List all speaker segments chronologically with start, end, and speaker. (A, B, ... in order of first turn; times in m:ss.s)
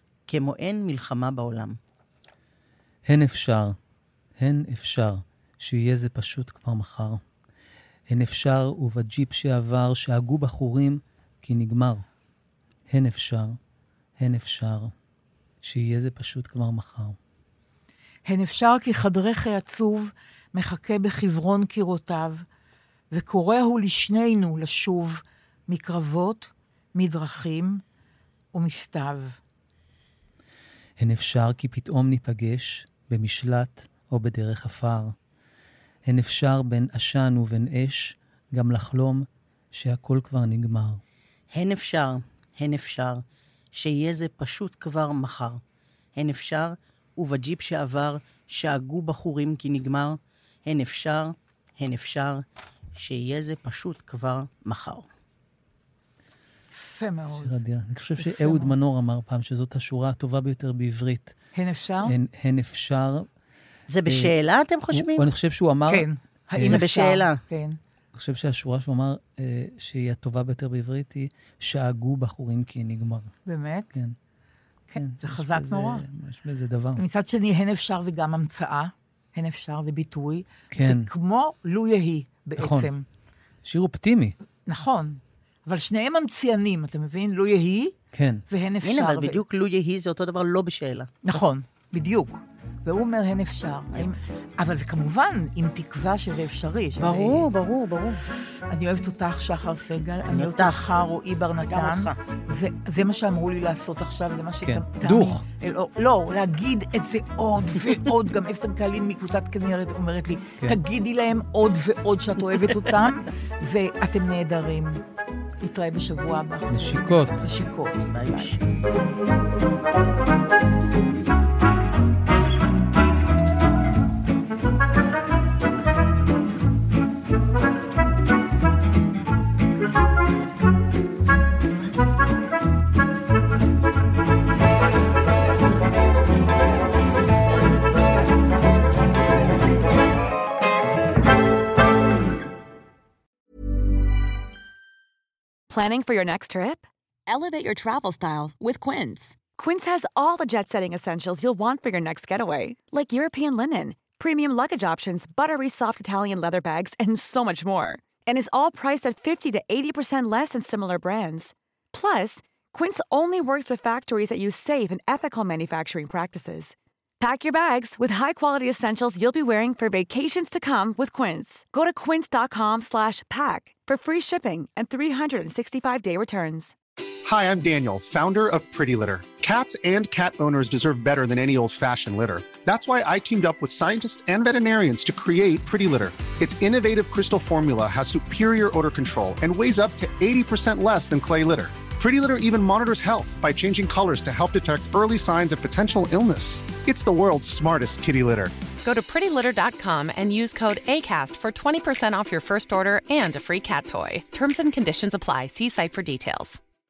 0:00.3-0:01.8 A
0:03.0-0:03.7 B
0:04.4-0:07.2 B
0:08.1-0:12.0 B
0:12.9-0:13.6 B
0:14.2-0:14.9 B
0:15.6-0:17.2 B
0:18.2-0:22.4 C
0:23.1-0:27.8 C
0:28.5-0:29.4 C
0:31.0-0:35.1 B
0:36.1-0:41.0 B
0:41.5-0:43.2 A
0:43.7-0:45.6 A
0:46.2-0:52.4 A
0:53.0-0:55.0 A
0:56.7-0:57.6 C
0:57.4-1:01.3 B
0:58.2-0:58.7 C
1:01.5-1:02.1 C
1:02.0-1:03.3 B
1:03.9-1:05.2 A
1:04.0-1:04.3 B
1:04.9-1:06.8 B
1:05.9-1:07.8 C
1:06.6-1:07.4 A
1:08.1-1:13.3 B
1:13.4-1:13.9 C
1:14.9-1:16.0 C
1:15.0-1:17.0 B
1:17.0-1:23.0 C
1:20.7-1:21.1 B
1:22.6-1:22.9 B
1:23.6-1:24.3 B
1:24.7-1:28.0 C
1:28.1-1:28.4 B
1:28.5-1:29.4 C
1:28.8-1:31.1 A
1:31.2-1:37.5 C
1:37.0-1:38.2 A
1:38.7-1:55.0 C
1:40.2-1:40.9 A
1:41.7-1:42.2 A
1:44.6-1:45.4 B
1:55.6-1:58.6 C
1:56.7-1:57.4 B
1:58.1-1:58.6 A
2:25.7-2:56.7 D
2:57.2-3:18.5 E
3:18.8-3:26.6 F